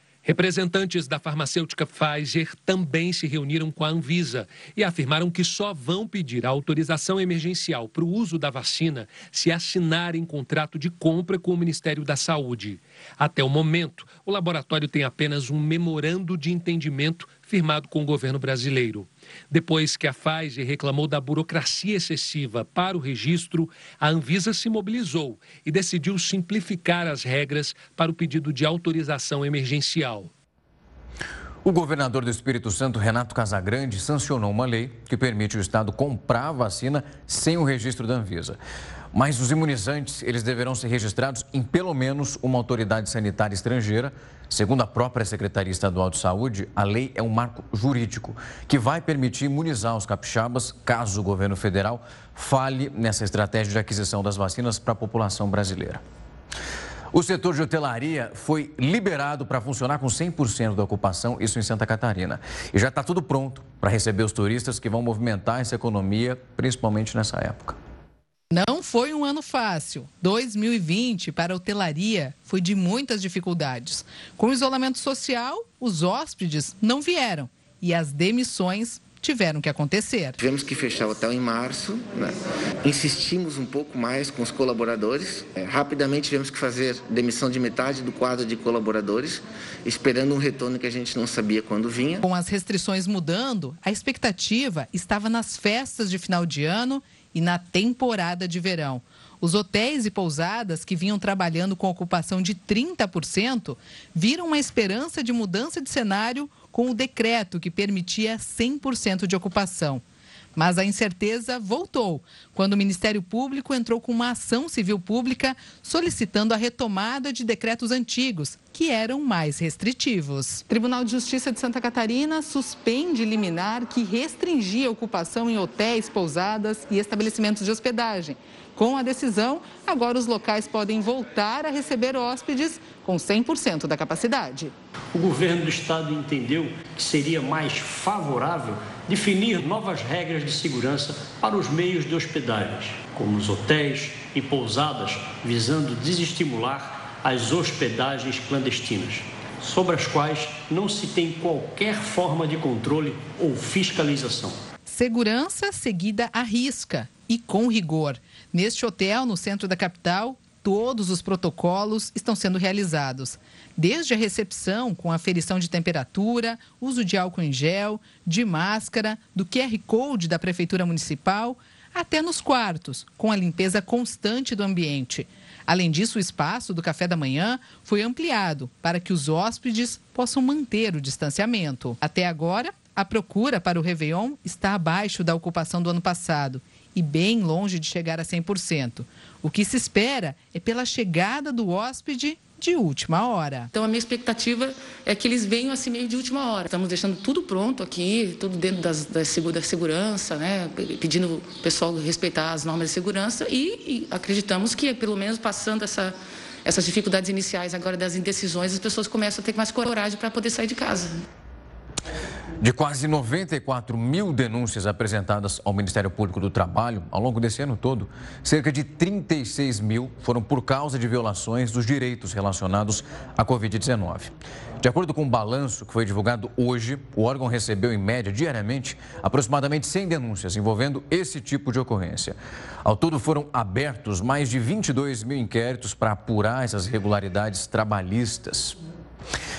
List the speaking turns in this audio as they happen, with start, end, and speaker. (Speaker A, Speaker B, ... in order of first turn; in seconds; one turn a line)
Speaker A: 0.2-30.3
Speaker B: 31.6-38.6
Speaker B: 39.1-56.0
Speaker B: 57.1-67.8
Speaker C: 68.5-80.4
Speaker D: 80.4-92.2
Speaker C: 92.2-110.0
Speaker C: 110.6-134.7
Speaker E: 135.1-154.6
Speaker C: 154.9-193.7
Speaker F: 193.7-211.2
Speaker B: 212.6-238.8